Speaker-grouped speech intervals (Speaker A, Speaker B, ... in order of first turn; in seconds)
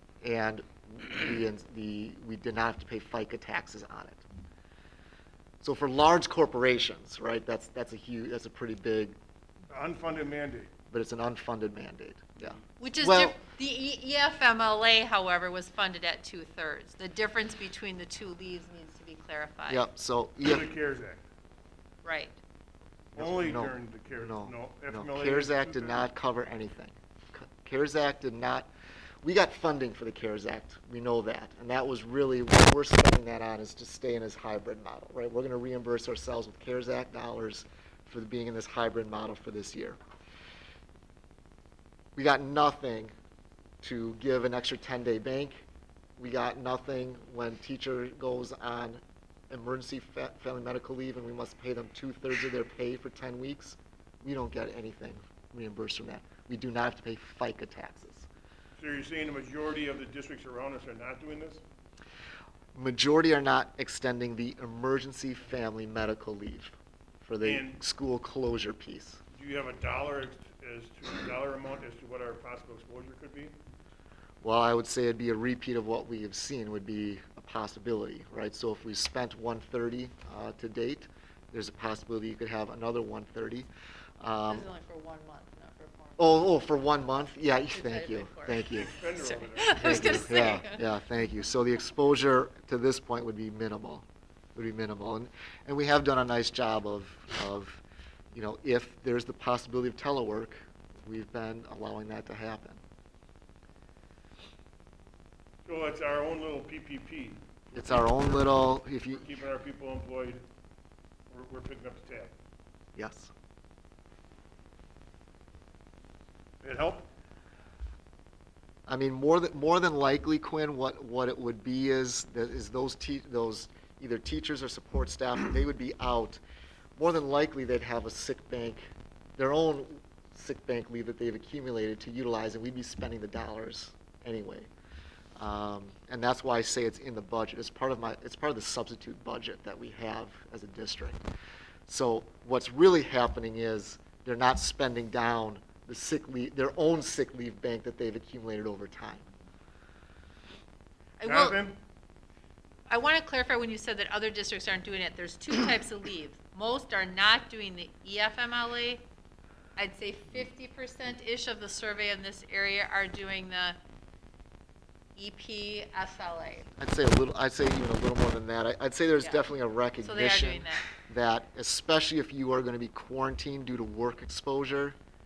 Speaker A: 0.2-4.2, 5.6-9.2, 10.9-13.4, 19.7-20.7, 23.2-28.7, 29.2-40.0, 42.2-43.1, 43.8-45.6, 46.2-58.3, 62.7-69.2, 74.4-83.7, 84.2-84.7, 86.2-88.9, 89.8-94.0, 94.5-102.8, 107.7-109.2, 113.0-113.3, 118.8-126.4, 127.0-128.9, 129.4-134.7, 135.4-141.2, 141.9-149.3, 166.8-175.0
Speaker B: 9.7-10.7, 20.4-21.2, 23.1-26.1, 58.8-61.6, 67.4-67.8, 69.3-73.5, 88.7-90.0, 105.6-107.6, 109.1-110.4, 111.3-112.3, 116.6-117.1, 151.2-151.8
Speaker C: 12.8-19.9, 22.0-22.4, 84.5-86.5, 87.7-90.9, 151.2-151.6, 152.9-159.0, 159.8-163.8, 165.2-166.7, 170.0-170.9